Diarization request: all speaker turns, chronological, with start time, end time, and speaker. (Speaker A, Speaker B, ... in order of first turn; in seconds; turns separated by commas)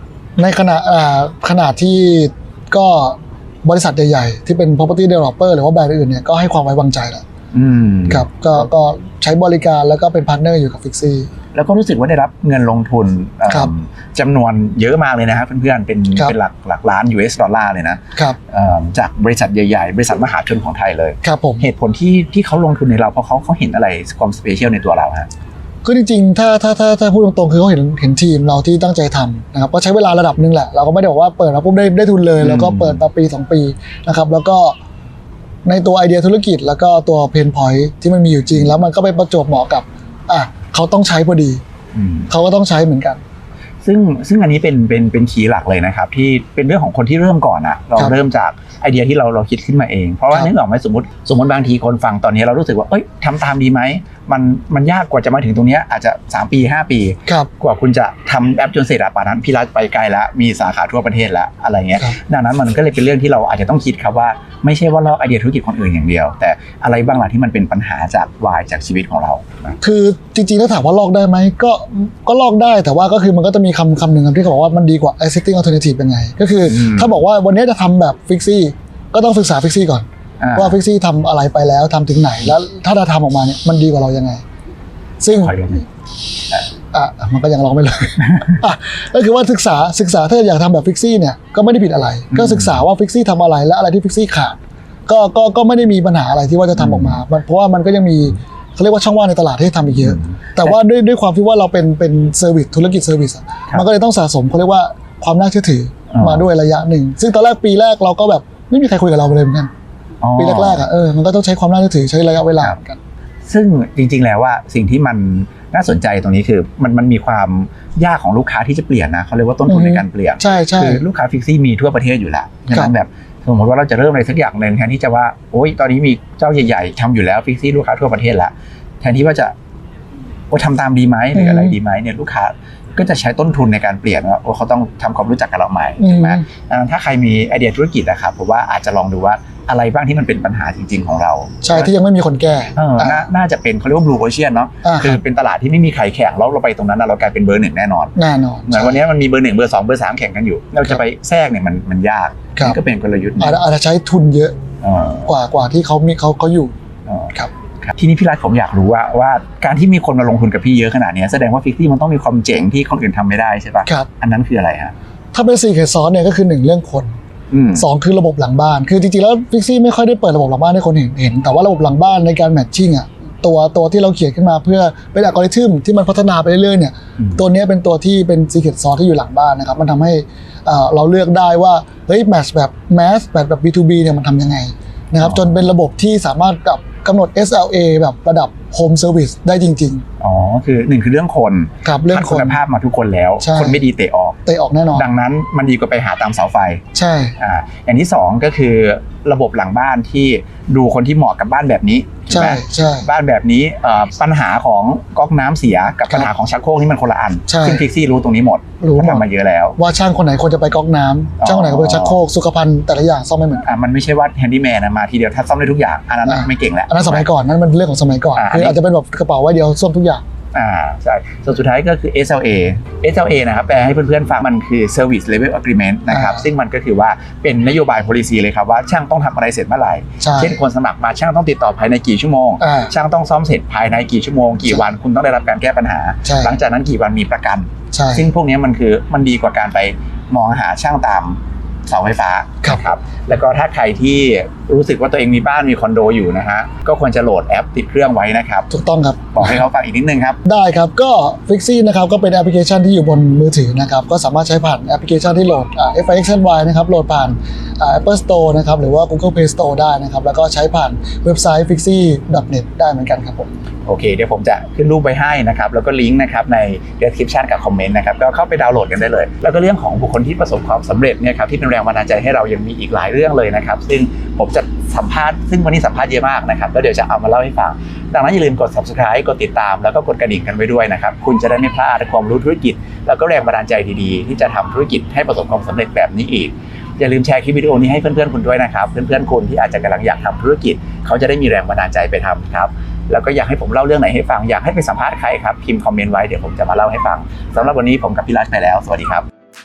Speaker A: 0.4-7.2, Speaker B: 7.5-8.3, Speaker A: 8.1-11.3, Speaker B: 11.5-25.3, Speaker A: 21.2-21.6, Speaker A: 25.8-34.8, Speaker B: 32.4-33.0, Speaker A: 35.6-41.6, Speaker B: 41.9-42.3, Speaker A: 42.3-43.2, Speaker B: 43.8-69.8, Speaker A: 69.8-84.4, Speaker B: 76.7-77.2, Speaker B: 80.4-80.8, Speaker A: 85.2-85.6, Speaker B: 85.3-85.8, Speaker A: 86.9-109.7, Speaker B: 88.2-88.6, Speaker B: 92.3-92.8, Speaker B: 96.7-97.2, Speaker B: 99.9-100.8, Speaker B: 106.1-106.5, Speaker B: 110.2-110.8, Speaker A: 110.4-113.0, Speaker B: 113.5-129.5, Speaker A: 119.7-121.0, Speaker B: 130.5-141.9, Speaker A: 131.3-131.8, Speaker A: 136.0-136.4, Speaker A: 141.6-143.2, Speaker B: 142.7-148.2, Speaker A: 144.8-145.2, Speaker A: 148.2-149.0, Speaker B: 148.7-153.6, Speaker A: 153.4-154.5, Speaker B: 154.8-155.3, Speaker A: 155.2-156.7, Speaker B: 157.1-164.9, Speaker A: 165.3-167.2, Speaker B: 167.5-167.8, Speaker A: 167.7-190.0, Speaker B: 177.2-177.4, Speaker B: 185.2-185.6, Speaker B: 190.2-194.4, Speaker A: 191.8-192.6, Speaker A: 193.4-193.8, Speaker A: 194.4-195.1, Speaker B: 194.9-196.8, Speaker A: 196.9-197.3, Speaker B: 197.4-209.8, Speaker A: 202.3-203.1, Speaker A: 207.5-207.8, Speaker A: 208.8-209.2, Speaker A: 209.8-213.6, Speaker B: 211.4-212.2, Speaker B: 213.6-217.3, Speaker A: 216.2-220.2, Speaker B: 218.3-218.8, Speaker B: 220.5-248.7, Speaker A: 226.1-226.4, Speaker A: 230.2-230.6, Speaker A: 232.6-232.9, Speaker A: 236.2-236.6, Speaker A: 237.9-238.3, Speaker A: 248.7-249.6, Speaker B: 249.3-250.4, Speaker A: 250.4-263.5, Speaker B: 263.9-299.2